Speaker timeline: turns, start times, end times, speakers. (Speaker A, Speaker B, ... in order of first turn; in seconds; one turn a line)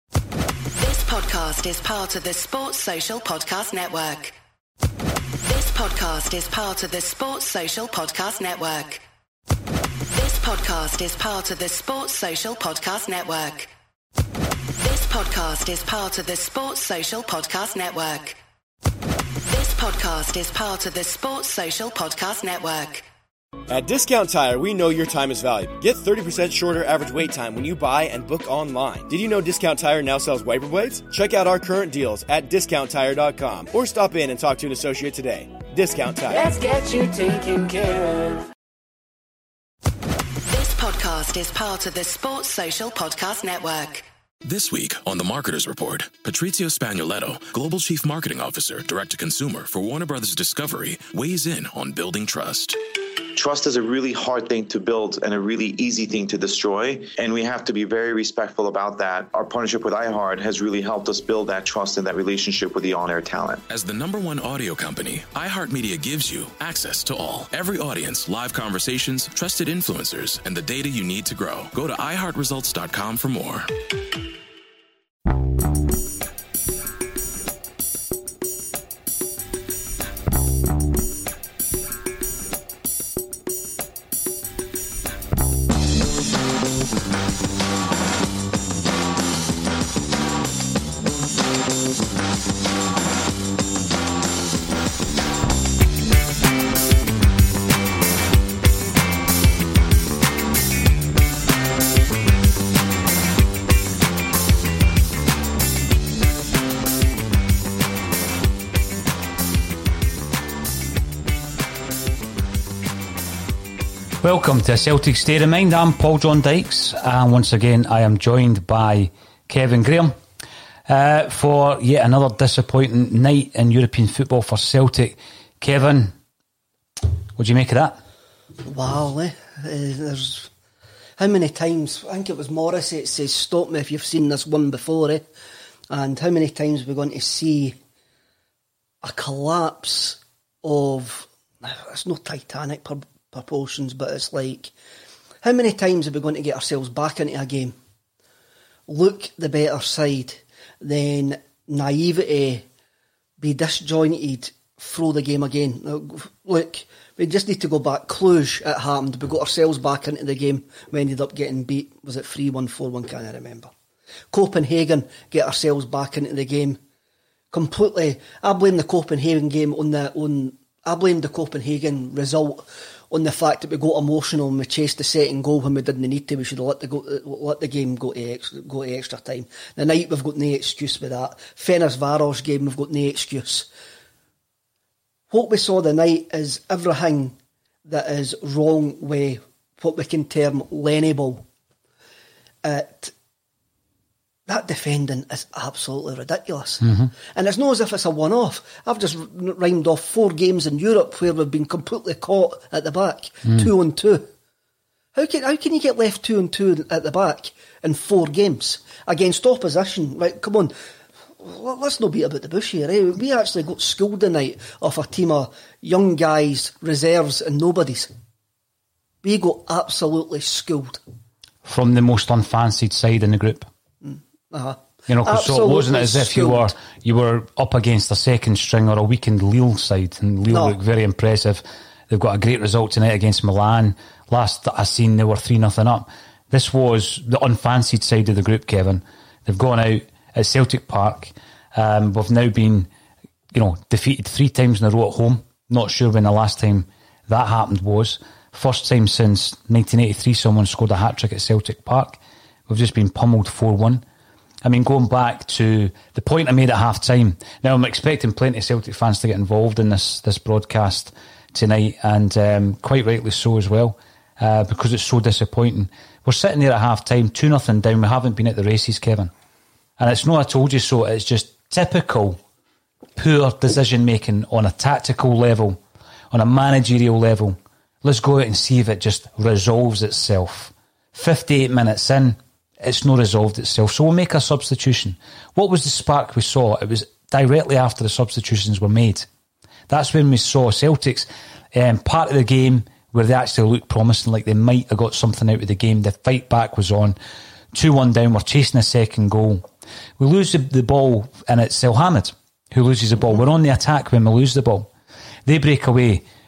Speaker A: 0.8-4.3
Speaker A: 5.4-9.0
Speaker A: 10.1-13.7
Speaker A: 14.8-18.4
Speaker A: 19.5-23.1
Speaker B: 23.7-36.4
Speaker C: 36.3-38.5
Speaker A: 40.5-44.1
Speaker D: 44.4-52.8
Speaker E: 53.4-63.6
Speaker D: 63.7-73.7
Speaker F: 114.2-120.2
Speaker F: 120.9-126.2
Speaker F: 127.4-128.0
Speaker G: 128.7-130.5
Speaker G: 131.2-135.2
Speaker G: 135.9-137.8
Speaker G: 139.0-144.7
Speaker G: 145.4-147.7
Speaker G: 148.9-152.7
Speaker G: 153.4-163.7
Speaker G: 164.3-166.8
Speaker G: 167.5-183.7
Speaker G: 185.3-191.4
Speaker G: 192.6-193.1
Speaker G: 194.5-204.3
Speaker F: 196.8-197.1
Speaker G: 205.2-210.7
Speaker G: 211.4-218.1
Speaker G: 219.2-221.0
Speaker F: 221.7-223.7
Speaker G: 224.0-226.7
Speaker F: 225.1-242.9
Speaker G: 230.5-230.8
Speaker F: 243.5-254.0
Speaker F: 254.6-269.3
Speaker F: 270.0-272.4
Speaker F: 273.2-275.8
Speaker F: 276.3-289.3
Speaker F: 289.9-297.2
Speaker F: 297.7-299.7
Speaker F: 300.2-304.9
Speaker F: 305.5-306.2